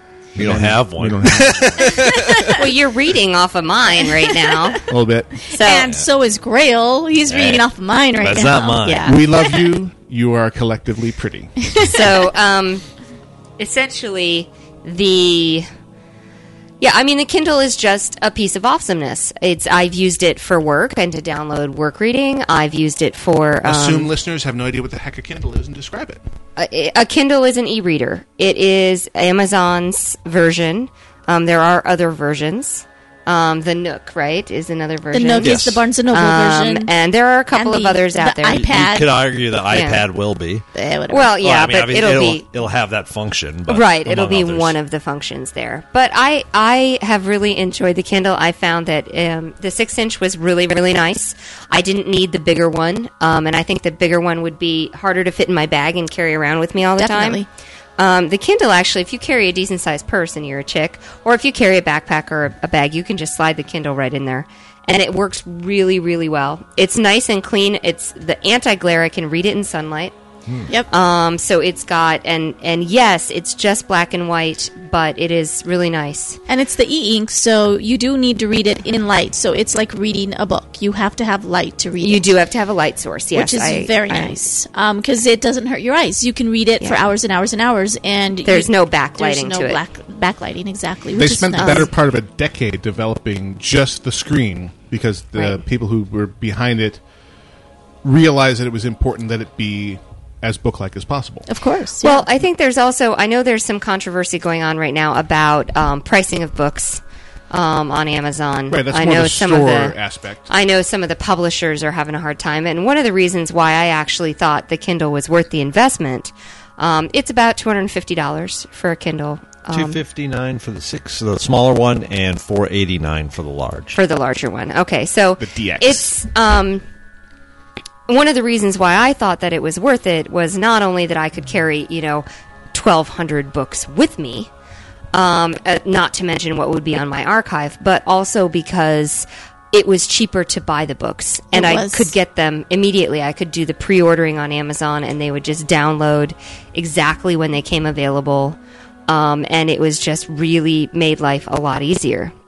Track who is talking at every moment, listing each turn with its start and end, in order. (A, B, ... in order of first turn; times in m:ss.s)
0:00.4-0:02.5 A
0:00.4-0:02.1 B
0:02.1-0:02.5 C
0:02.6-0:04.8 D
0:04.3-0:04.8 C
0:04.9-0:05.3 B
0:05.5-0:09.4 C
0:05.5-0:05.9 D
0:07.3-0:07.7 A
0:08.2-0:09.2 A
0:09.0-0:11.6 B
0:11.8-0:12.8 D
0:13.6-0:15.7 D
0:16.8-0:24.1 D
0:23.6-0:26.2 B
0:26.6-0:35.6 D
0:35.1-0:36.9 C
0:35.4-0:35.8 A
0:36.1-0:38.7 D
0:37.5-0:39.1 C
0:38.5-0:40.6 A
0:39.7-0:40.0 D
0:40.8-0:41.3 C
0:41.1-0:42.4 D
0:41.4-0:44.8 A
0:43.7-0:57.4 D
0:57.0-0:57.5 C
0:58.0-1:10.2 D
1:10.9-1:16.4 D
1:16.5-1:22.3 C
1:22.0-1:24.4 D
1:23.3-1:31.9 C
1:28.4-1:29.8 D
1:31.2-1:37.0 B
1:31.6-1:31.9 D
1:35.4-1:35.6 D
1:38.0-1:41.5 B
1:41.5-1:42.3 C
1:42.0-1:50.0 D
1:48.7-1:50.5 B
1:50.5-2:00.0 D
1:59.7-2:04.0 A
2:03.9-2:06.8 D
2:05.4-2:06.1 B
2:08.1-2:14.5 D
2:15.1-2:28.6 D
2:21.5-2:22.1 C
2:29.1-2:32.3 D